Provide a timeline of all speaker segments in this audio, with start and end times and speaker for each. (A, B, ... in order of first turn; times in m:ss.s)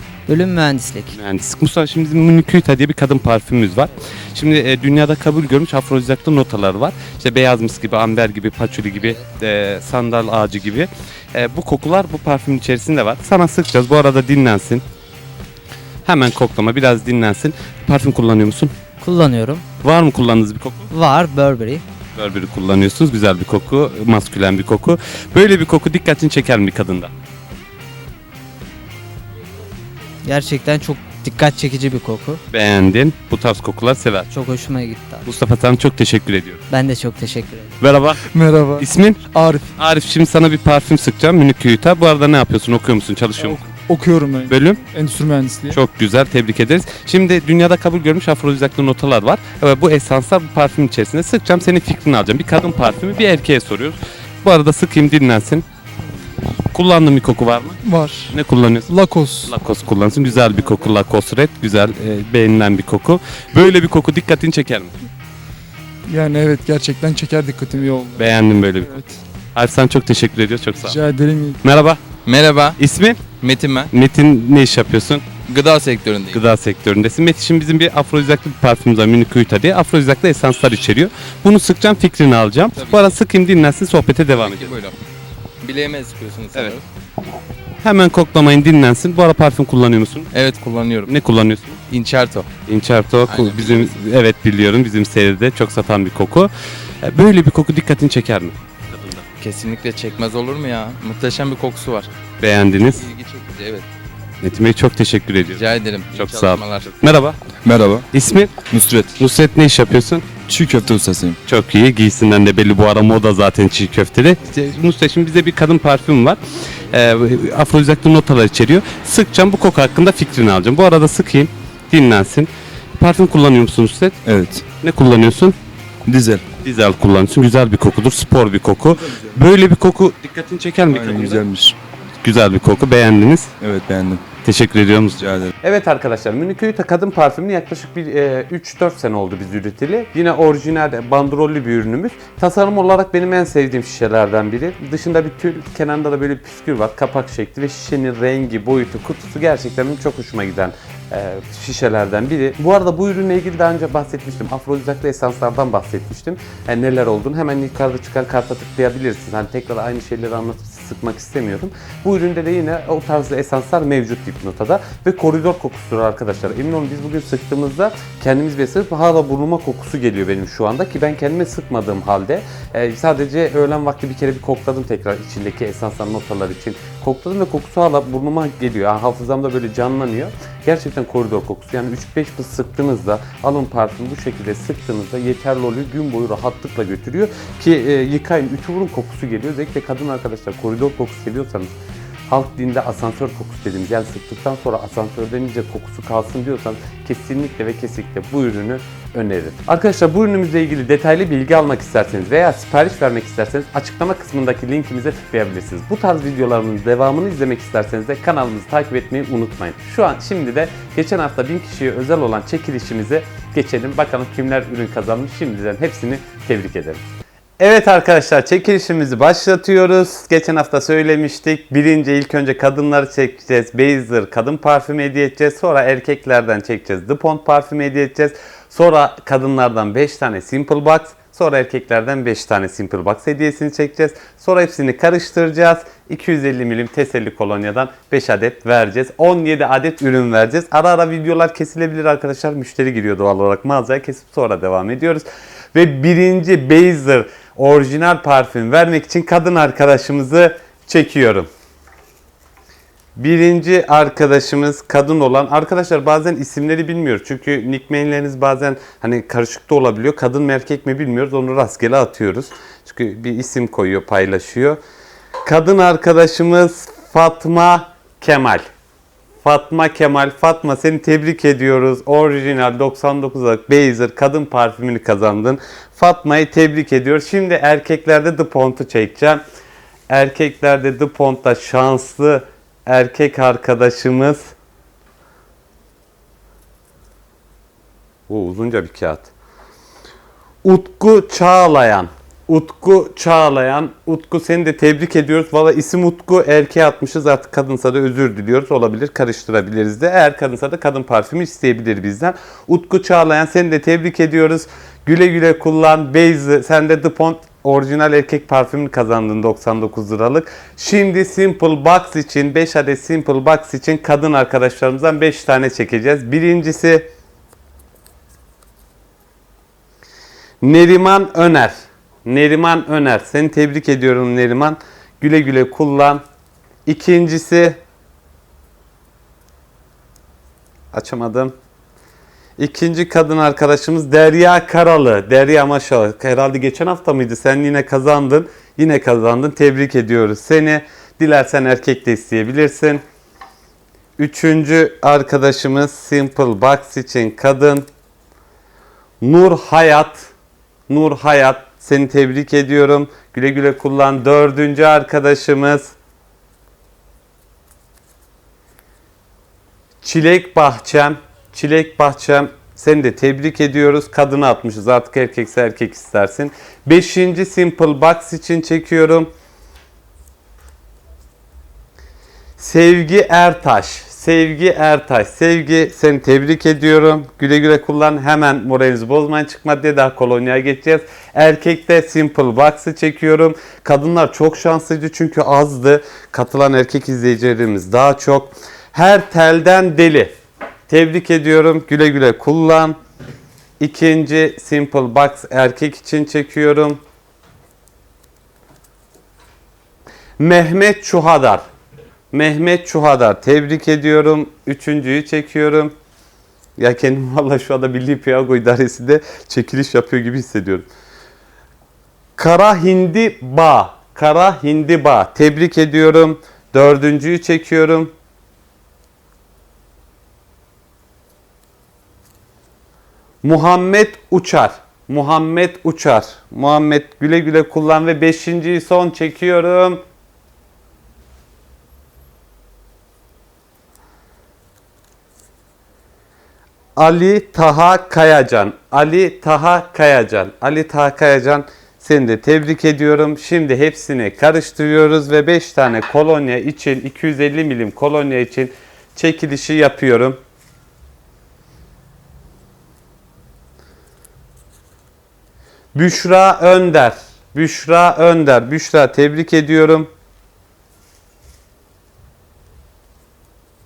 0:00.3-0:01.2 A
0:01.1-0:14.8 B
0:16.0-0:18.7 B
0:19.0-0:19.6 A
0:19.8-0:20.9 B
0:20.9-0:21.8 A
0:22.2-0:27.1 B
0:30.2-0:32.4 A
0:32.5-0:34.3 B
0:34.3-0:35.2 A
0:35.2-0:36.6 B
0:36.7-0:37.8 A
0:37.8-0:38.2 B
0:38.2-0:39.8 C
0:38.8-0:43.6 B
0:43.4-0:45.8 C
0:44.5-0:44.8 B
0:45.7-0:55.6 B
0:56.7-0:57.8 B
0:57.8-0:58.4 C
0:58.3-0:58.9 B
0:58.9-0:59.5 C
0:59.4-1:04.9 B
1:06.1-1:09.2 C
1:08.2-1:09.0 B
1:09.5-1:11.0 B
1:10.8-1:11.6 C
1:11.6-1:12.0 B
1:12.2-1:12.8 D
1:12.8-1:13.2 B
1:13.4-1:13.9 D
1:13.9-1:15.3 B
1:15.5-1:16.4 D
1:16.3-1:24.7 B
1:22.8-1:23.1 D
1:24.3-1:25.0 D
1:25.6-1:26.8 D
1:27.8-1:30.3 B
1:30.3-1:31.1 D
1:31.0-1:31.8 B
1:31.9-1:32.5 D
1:32.6-1:36.5 B
1:33.2-1:34.0 D
1:37.0-1:39.2 B
1:39.4-1:42.1 D
1:42.4-1:43.1 B
1:42.9-1:43.9 D
1:44.4-1:47.4 B
1:45.5-1:46.9 D
1:47.6-1:48.1 E
1:48.1-1:48.6 B
1:48.6-1:49.2 E
1:49.2-1:50.3 B
1:50.5-1:51.4 E
1:51.4-2:04.2 B
2:04.2-2:04.6 E
2:04.8-2:05.6 B
2:06.0-2:06.5 E
2:06.6-2:11.4 B
2:10.9-2:11.8 E
2:12.2-2:13.5 B
2:13.6-2:14.2 E
2:14.4-3:11.7 B
2:15.2-2:15.5 E
3:12.3-3:37.0 B
3:37.6-4:11.5 B
4:13.2-4:24.8 B
4:25.4-4:28.6 B
4:29.4-4:39.4 B
4:40.1-4:44.5 B
4:48.3-4:49.3 B
4:50.6-5:17.1 B
5:20.6-5:26.2 B
5:26.8-5:27.8 B
5:30.9-5:31.5 B
5:32.6-5:43.0 B
5:44.2-5:47.8 B
5:49.2-5:50.3 B
5:50.9-5:55.9 B
6:00.0-6:09.3 B
6:12.6-6:30.3 B
6:30.9-6:33.0 B
6:33.8-6:37.0 B
6:40.4-6:41.6 B
6:42.3-6:45.9 B
6:46.8-6:50.9 B
6:52.4-6:58.1 B
7:03.4-7:10.0 B
7:17.0-7:30.4 B
7:35.9-7:40.1 B